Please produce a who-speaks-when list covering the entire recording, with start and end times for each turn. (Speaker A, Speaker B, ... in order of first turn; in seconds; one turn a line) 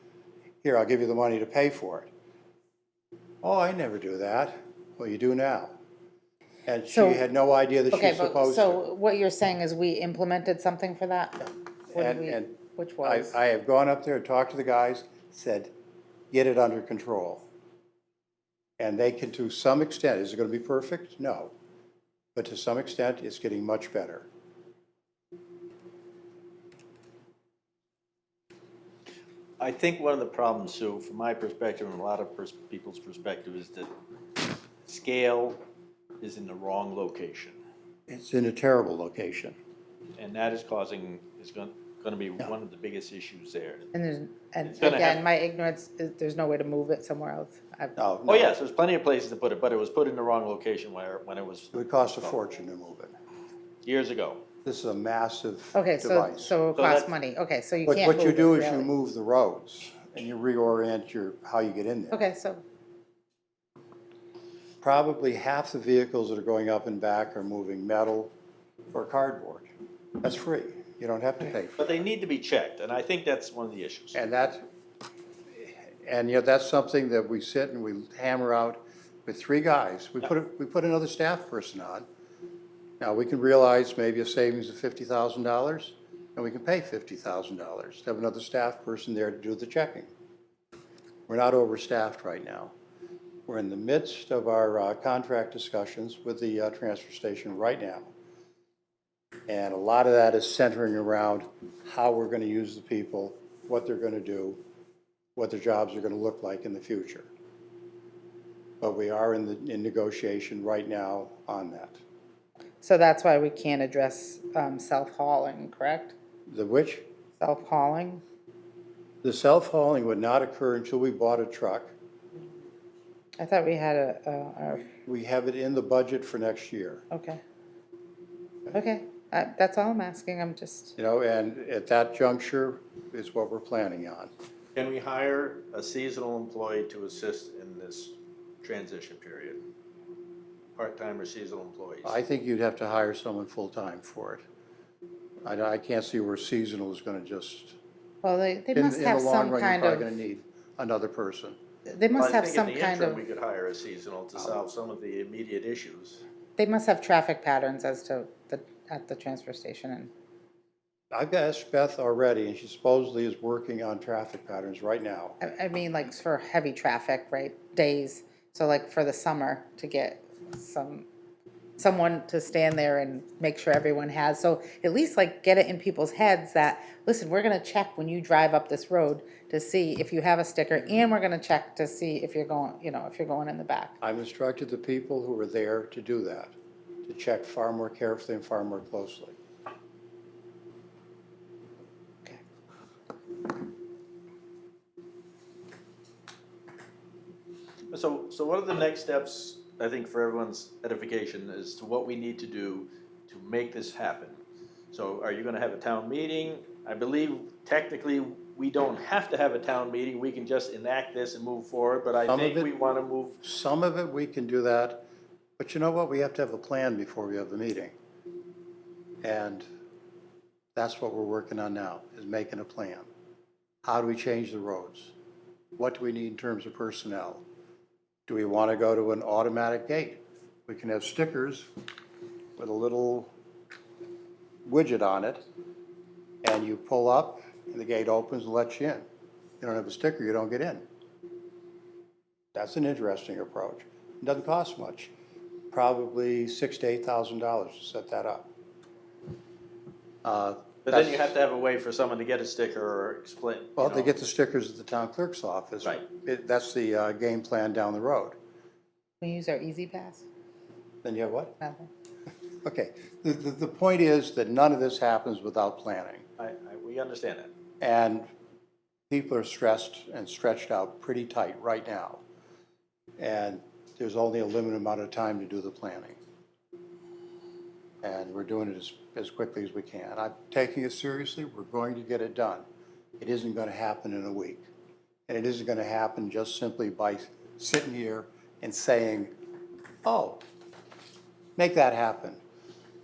Speaker A: 0.6-2.1
Speaker A: 3.4-5.8
Speaker A: 6.7-8.8
Speaker B: 6.9-7.2
Speaker B: 7.9-13.4
Speaker A: 11.9-15.7
Speaker A: 16.3-17.4
Speaker A: 18.8-21.5
Speaker A: 22.3-24.3
Speaker C: 29.6-33.9
Speaker C: 34.8-35.6
Speaker C: 36.2-37.6
Speaker A: 38.1-39.6
Speaker C: 40.1-43.9
Speaker B: 43.9-48.0
Speaker C: 44.6-45.2
Speaker A: 48.0-48.5
Speaker C: 48.3-52.4
Speaker A: 51.7-53.1
Speaker C: 53.8-54.4
Speaker A: 54.6-56.5
Speaker B: 55.7-58.9
Speaker C: 56.7-57.1
Speaker A: 57.9-62.2
Speaker B: 62.1-62.6
Speaker A: 64.8-68.3
Speaker A: 68.9-69.7
Speaker A: 70.2-71.8
Speaker C: 71.8-74.2
Speaker A: 74.1-74.6
Speaker A: 75.5-82.0
Speaker A: 83.0-90.1
Speaker A: 91.3-92.7
Speaker A: 93.5-98.1
Speaker A: 99.5-104.6
Speaker A: 105.3-107.3
Speaker A: 108.8-112.0
Speaker B: 112.8-116.2
Speaker A: 116.5-117.1
Speaker B: 117.4-118.2
Speaker A: 119.2-121.9
Speaker B: 123.4-124.9
Speaker A: 124.8-127.0
Speaker B: 127.1-127.4
Speaker B: 128.7-130.9
Speaker A: 131.0-134.3
Speaker C: 134.7-139.6
Speaker C: 140.8-142.2
Speaker A: 142.0-144.4
Speaker A: 145.4-147.8
Speaker B: 148.2-150.1
Speaker A: 148.7-151.6
Speaker B: 151.8-153.2
Speaker C: 152.2-156.2
Speaker B: 156.6-160.1
Speaker A: 161.1-165.4
Speaker B: 165.4-171.1
Speaker B: 171.8-183.9
Speaker A: 184.0-189.4
Speaker C: 197.9-204.4
Speaker C: 204.9-213.4
Speaker A: 212.3-212.7
Speaker A: 213.4-215.1
Speaker A: 215.6-217.9
Speaker A: 219.2-219.7
Speaker A: 220.7-223.1
Speaker A: 223.8-225.1
Speaker A: 225.8-227.4
Speaker A: 228.3-231.7
Speaker A: 232.6-233.3
Speaker A: 234.7-235.4
Speaker A: 236.4-239.0
Speaker A: 239.6-240.8
Speaker A: 242.5-245.1
Speaker A: 245.7-248.5
Speaker A: 250.2-251.3
Speaker C: 250.8-254.1
Speaker A: 253.8-258.4
Speaker B: 259.2-260.2
Speaker A: 261.0-261.5
Speaker B: 261.6-261.9
Speaker A: 262.6-266.2
Speaker C: 266.4-267.5
Speaker A: 267.8-268.3
Speaker A: 269.1-272.2
Speaker A: 273.2-276.2
Speaker A: 278.0-282.6
Speaker A: 283.2-284.6
Speaker A: 285.3-289.3
Speaker A: 290.0-290.4
Speaker A: 291.6-292.4